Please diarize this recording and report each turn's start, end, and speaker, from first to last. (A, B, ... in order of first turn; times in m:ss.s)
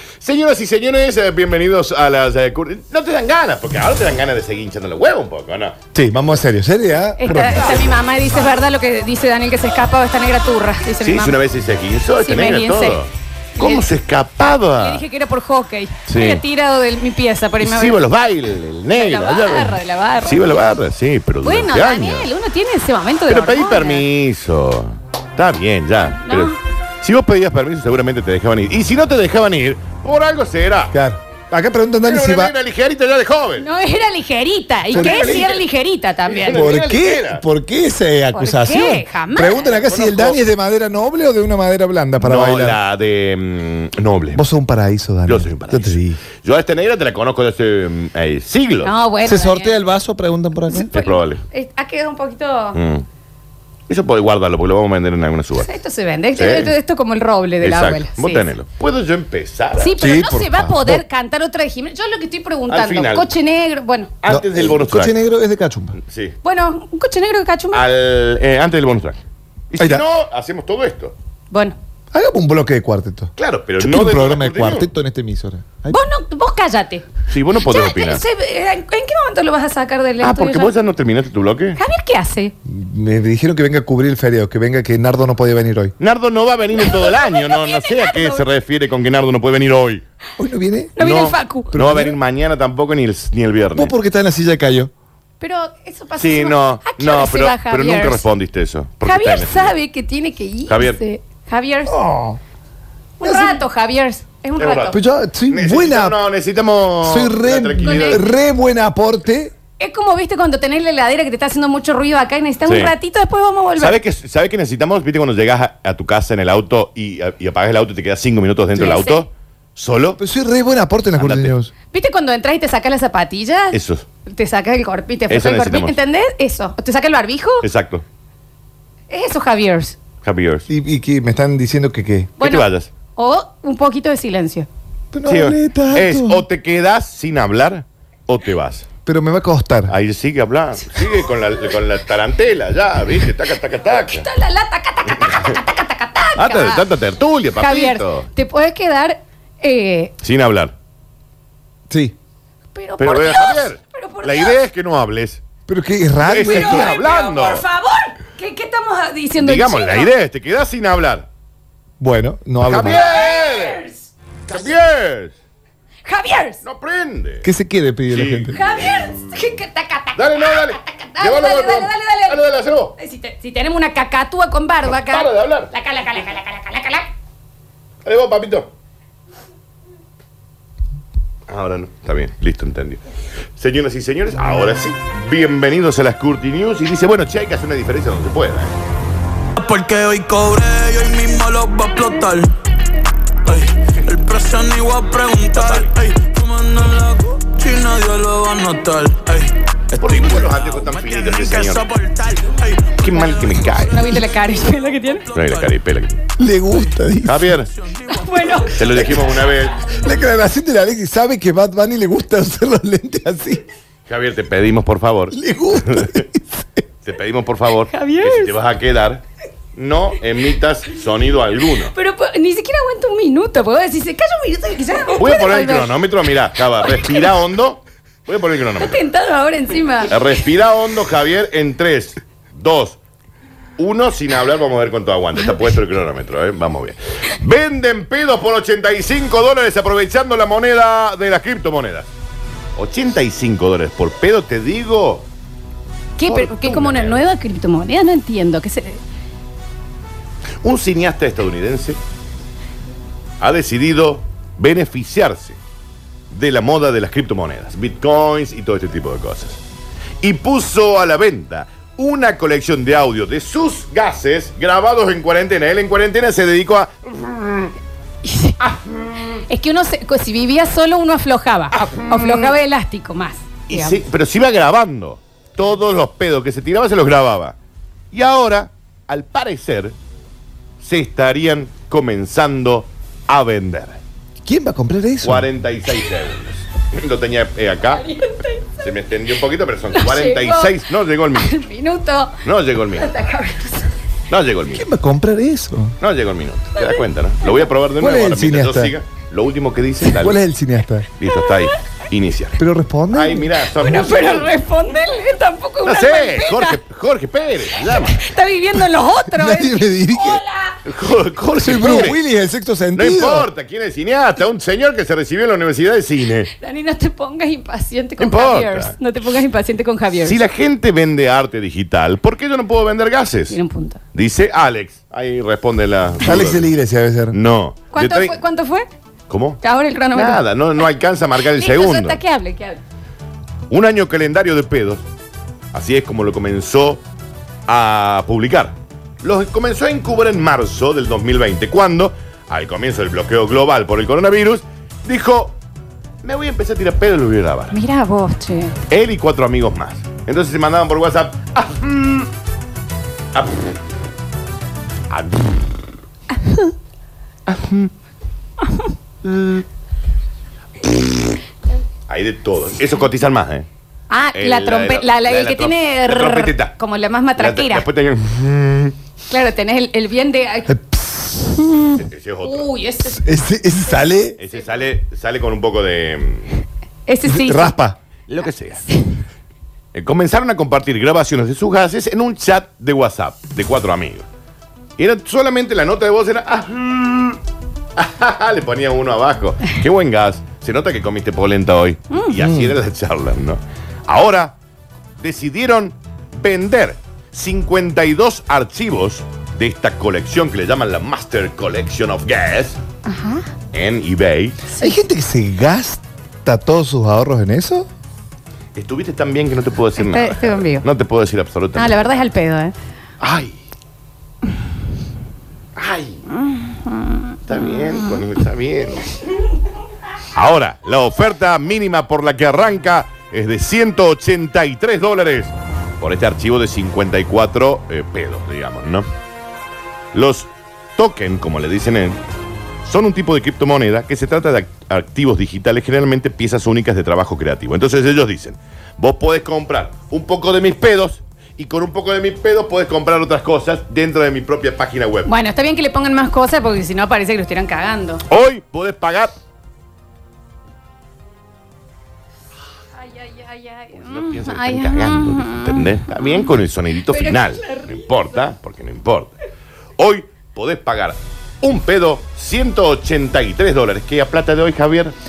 0:00.2-0:05.8 A
0:05.9-0:07.9 B
0:07.2-0:11.4 C
0:11.0-0:15.0 A
0:12.2-0:13.0 C
0:13.6-0:13.8 C
0:14.8-0:18.0 C
0:16.1-0:16.4 A
0:17.6-0:22.3 A
0:18.9-0:20.6 C
0:21.4-0:24.0 C
0:23.3-0:30.9 A
0:26.2-0:26.6 C
0:30.9-0:32.5 B
0:32.0-0:33.7 A
0:33.6-0:36.7 C
0:34.9-0:35.6 A
0:34.9-0:35.5 B
0:36.2-0:37.4 A
0:36.5-0:42.8 B
0:38.3-0:39.7 C
0:39.8-0:40.4 A
0:42.2-0:44.4 A
0:44.3-0:46.2 B
0:45.2-0:48.9 A
0:48.8-0:49.8 C
0:49.2-0:50.9 B
0:50.7-0:52.8 C
0:50.9-0:51.4 A
0:52.7-0:53.0 A
0:53.9-0:55.7 A
0:55.6-0:58.4 C
0:56.3-0:56.7 A
0:57.6-1:00.0 A
0:59.8-1:04.1 C
1:00.0-1:01.0 B
1:02.7-1:03.3 A
1:04.2-1:05.1 A
1:04.3-1:06.0 B
1:06.0-1:06.4 A
1:06.4-1:07.8 C
1:07.7-1:09.2 A
1:09.7-1:11.1 A
1:09.8-1:10.0 B
1:11.5-1:11.8 C
1:12.1-1:16.0 B
1:13.4-1:14.9 A
1:15.9-1:17.0 C
1:17.3-1:18.2 A
1:17.6-1:20.7 C
1:20.2-1:21.8 A
1:21.8-1:22.5 C
1:22.6-1:25.9 B
1:26.0-1:30.0 A
1:26.8-1:28.4 C
1:30.4-1:31.0 B
1:31.0-1:31.7 C
1:31.0-1:33.9 A
1:31.7-1:32.2 B
1:33.7-1:34.9 B
1:35.4-1:38.2 C
1:36.2-1:39.7 A
1:39.0-1:42.0 C
1:40.7-1:41.0 A
1:41.9-1:42.4 B
1:43.2-1:45.0 C
1:43.2-1:43.6 B
1:44.6-1:45.0 A
1:44.9-1:46.2 B
1:45.5-1:48.2 A
1:47.0-1:49.5 B
1:47.8-1:48.3 C
1:49.8-1:54.0 C
1:52.6-1:52.9 A
1:53.8-2:00.2 A
1:58.7-1:59.2 C
2:00.2-2:01.7 B
2:01.2-2:01.5 A
2:01.9-2:07.6 C
2:03.7-2:04.0 A
2:05.3-2:06.0 A
2:07.6-2:08.0 A
2:09.1-2:10.0 C
2:10.2-2:10.7 A
2:10.7-2:12.3 B
2:12.4-2:14.7 C
2:12.4-2:12.9 A
2:15.1-2:16.4 B
2:15.3-2:18.9 A
2:19.0-2:19.9 B
2:19.9-2:24.3 A
2:23.9-2:26.8 C
2:25.1-2:25.6 A
2:26.4-2:28.3 A
2:27.6-2:30.1 C
2:30.2-2:30.7 A
2:31.9-2:32.2 B
2:32.7-2:34.6 C
2:33.0-2:35.4 A
2:35.7-2:36.9 B
2:36.3-2:37.6 A
2:36.4-2:40.1 C
2:39.4-2:41.3 A
2:42.0-2:43.1 B
2:42.6-2:43.8 A
2:42.9-2:44.7 C
2:44.5-2:45.3 A
2:46.0-2:46.6 C
2:46.6-2:47.5 A
2:47.4-2:48.6 B
2:48.1-2:49.3 A
2:48.5-2:52.4 C
2:50.2-2:52.9 A
2:53.0-2:57.1 C
2:54.9-2:55.7 A
2:58.0-2:58.7 A
3:01.5-3:03.0 A
3:03.6-3:08.7 A
3:09.6-3:12.5 D
3:13.4-3:25.8 D
3:15.5-3:15.9 A
3:20.0-3:21.8 A
3:23.0-3:24.1 A
3:23.9-3:25.2 C
3:25.3-3:26.2 A
3:26.4-3:27.6 B
3:27.2-3:27.7 A
3:27.8-3:28.8 D
3:28.1-3:28.8 C
3:28.7-3:29.9 A
3:29.9-3:33.6 B
3:34.1-3:36.2 A
3:35.3-3:36.8 B
3:37.0-3:39.2 A
3:37.9-3:38.5 C
3:39.7-3:41.9 A
3:41.9-3:46.0 C
3:45.2-3:49.0 A
3:46.8-3:47.3 C
3:48.8-3:50.2 C
3:50.1-3:53.0 A
3:53.8-4:02.1 A
4:02.8-4:05.3 A
4:06.2-4:09.0 C
4:06.2-4:07.2 A
4:10.6-4:12.0 A
4:13.4-4:15.6 A
4:16.3-4:19.6 A
4:20.2-4:27.7 A
4:28.2-4:28.6 C
4:28.6-4:29.1 A
4:29.5-4:34.0 C
4:31.7-4:32.5 A
4:33.7-4:37.6 A
4:38.1-4:39.9 A
4:40.8-4:44.0 A
4:44.4-4:45.5 B
4:45.2-4:48.1 A
4:48.0-4:48.6 C
4:48.8-4:51.6 A
4:49.9-4:50.7 C
4:51.4-4:52.4 C
4:52.4-4:53.1 A
4:52.9-4:53.9 C
4:54.3-4:54.9 A
4:54.7-4:56.0 B
4:56.0-5:00.4 A
4:56.8-4:57.0 C
4:58.0-4:58.9 B
5:00.1-5:01.1 B
5:01.2-5:02.6 A
5:01.4-5:01.7 C
5:02.6-5:03.5 B
5:03.1-5:04.5 A
5:03.8-5:06.8 C
5:05.8-5:08.3 A
5:07.8-5:10.8 C
5:09.3-5:10.4 B
5:10.8-5:12.2 A
5:11.6-5:13.5 B
5:12.9-5:16.5 A
5:16.6-5:20.4 C
5:18.2-5:18.9 A
5:20.2-5:23.6 A
5:23.5-5:24.0 C
5:24.1-5:26.7 A
5:26.2-5:27.4 B
5:27.3-5:28.4 A
5:27.9-5:28.9 C
5:29.3-5:29.6 A
5:29.6-5:30.4 C
5:30.1-5:32.2 A
5:31.5-5:32.8 C
5:33.7-5:35.0 A
5:35.7-5:37.0 A
5:37.7-5:45.6 A
5:46.2-5:47.8 A
5:47.7-5:48.7 C
5:48.9-5:52.3 A
5:53.3-5:53.6 A
5:55.1-5:55.8 A
5:57.5-5:57.9 A
5:59.2-5:59.6 A
6:02.1-6:03.6 A
6:04.1-6:07.8 C
6:04.3-6:06.7 A
6:07.4-6:08.9 A
6:09.3-6:10.7 C
6:10.7-6:12.0 B
6:12.0-6:12.7 A
6:12.4-6:13.2 C
6:13.1-6:14.4 B
6:14.4-6:16.5 A
6:17.1-6:17.7 C
6:17.2-6:18.0 B
6:18.3-6:18.8 A
6:19.9-6:24.2 A
6:25.0-6:27.4 A
6:28.0-6:34.6 A
6:32.4-6:32.7 B
6:35.2-6:42.8 A
6:43.0-6:43.4 C
6:43.7-6:44.6 A
6:44.8-6:47.9 B
6:48.8-6:52.1 A
6:50.0-6:50.8 C
6:51.7-6:52.7 C
6:53.2-6:53.5 A
6:55.8-6:56.2 A
6:56.3-6:58.1 C
6:57.5-6:59.2 A
7:00.3-7:09.1 A
7:10.1-7:12.2 A
7:12.8-7:25.3 A
7:25.2-7:28.2 C
7:28.3-7:29.3 A
7:33.0-7:36.2 C
7:34.0-7:39.3 A
7:37.1-7:38.3 C
7:40.0-7:45.1 A